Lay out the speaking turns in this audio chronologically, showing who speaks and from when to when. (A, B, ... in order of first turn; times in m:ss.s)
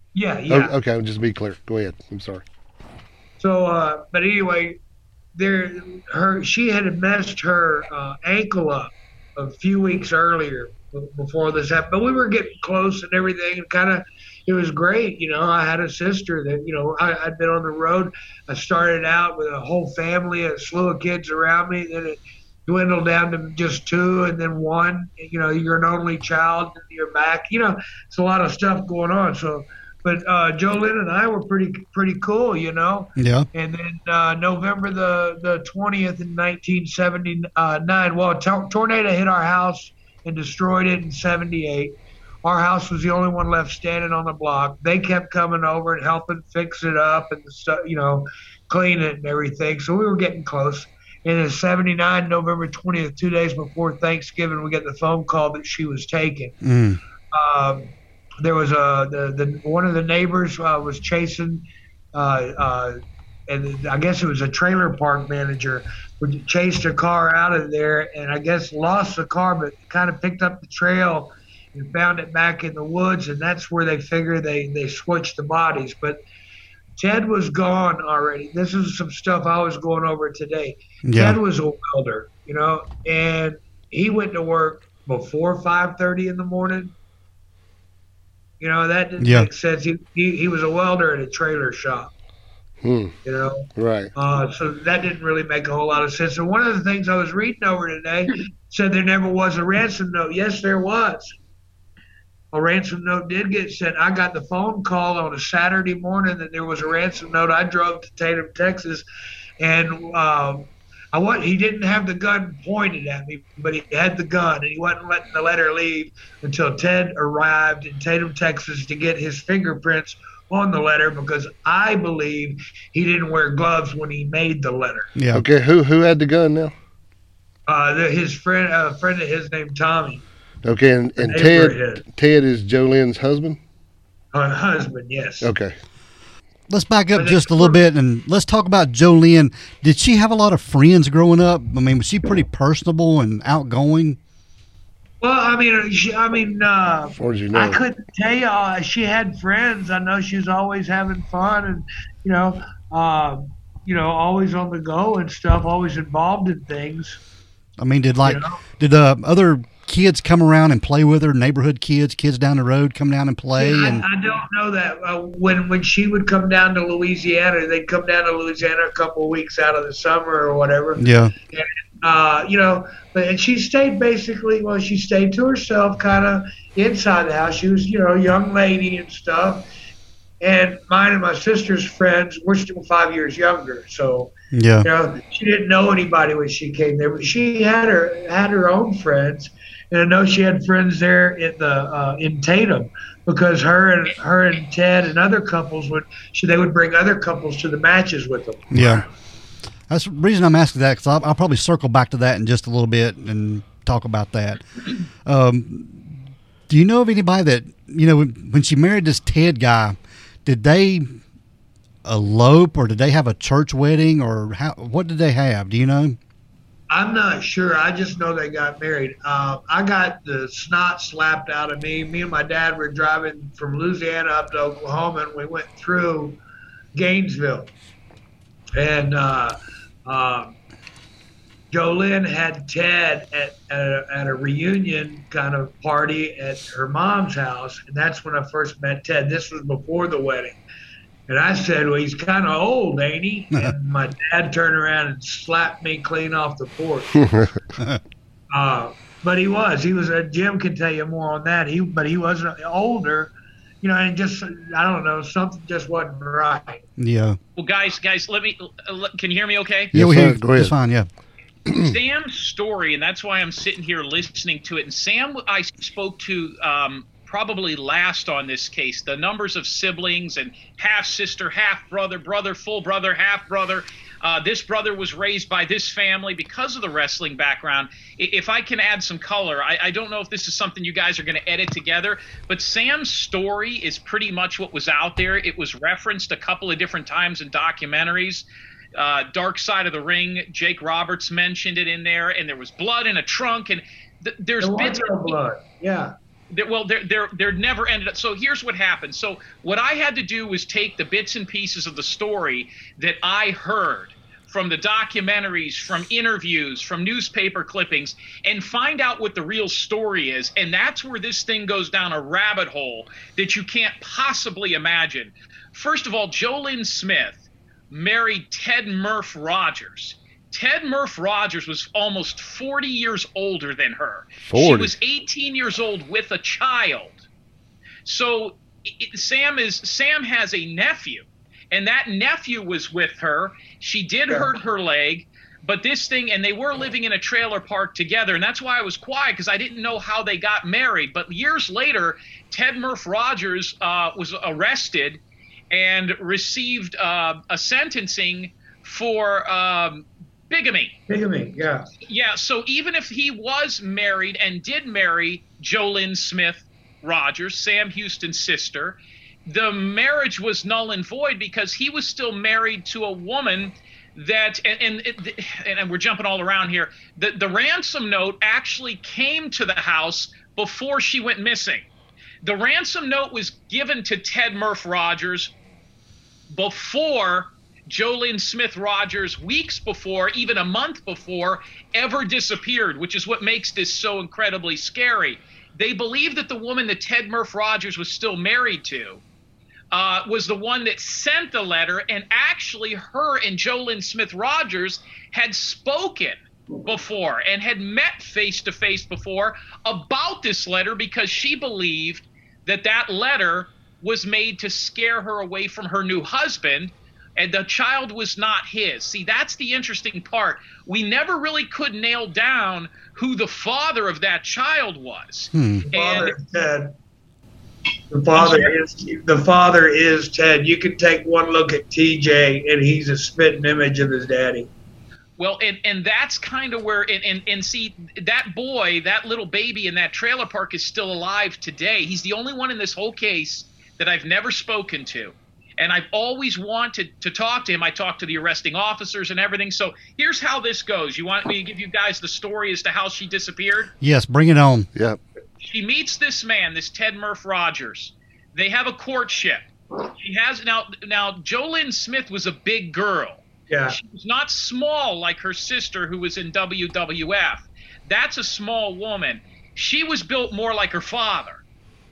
0:00.1-0:00.7 A
0:00.5-0:02.4 B
0:03.4-0:04.8 A
0:05.4-0:56.6 A
0:33.2-0:33.5 C
0:56.6-0:57.0 C
0:57.3-1:16.2 A
1:17.0-1:26.9 A
1:21.0-1:21.4 C
1:28.6-1:32.1 A
1:29.2-1:29.5 C
1:32.8-1:33.2 B
1:33.2-1:41.4 A
1:33.8-1:34.1 B
1:42.5-1:49.0 A
1:49.6-2:05.1 A
2:05.2-2:05.4 C
2:05.3-2:06.7 B
2:07.7-2:10.2 A
2:10.6-2:13.6 B
2:11.2-2:12.0 A
2:14.3-2:15.5 A
2:15.4-2:15.8 B
2:16.7-2:24.2 C
2:17.2-2:17.8 A
2:25.2-2:37.2 A
2:27.2-2:27.8 B
2:37.8-2:44.0 C
2:38.2-2:38.6 A
2:43.6-2:59.6 A
2:51.0-2:51.3 C
3:00.4-3:18.7 A
3:04.5-3:04.9 C
3:18.7-3:19.1 C
3:18.8-3:19.0 B
3:19.9-3:24.6 C
3:25.2-3:31.2 C
3:32.0-3:36.2 C
3:36.9-3:46.4 A
3:46.9-3:47.7 A
3:48.8-3:50.6 A
3:51.7-4:00.6 A
4:01.3-4:07.2 A
4:07.2-4:07.5 B
4:08.5-4:16.8 A
4:17.0-4:17.4 C
4:17.6-4:19.9 D
4:19.9-4:20.7 B
4:19.9-4:21.1 C
4:21.8-4:55.4 D
4:54.6-4:56.1 A
4:56.5-5:27.2 D
5:24.4-5:24.9 B
5:28.0-5:45.2 D
5:45.7-5:51.0 D
5:51.1-5:51.9 A
5:52.0-6:11.9 D
6:12.4-6:15.5 D
6:16.5-6:29.2 D
6:29.9-6:56.4 D
6:55.5-6:55.9 C
6:55.9-6:56.9 A
6:58.1-7:04.7 A
6:58.4-6:58.7 D
7:05.4-7:23.9 D
7:24.0-7:24.9 C
7:24.9-7:25.2 B
7:25.6-7:41.6 D
7:33.7-7:34.0 A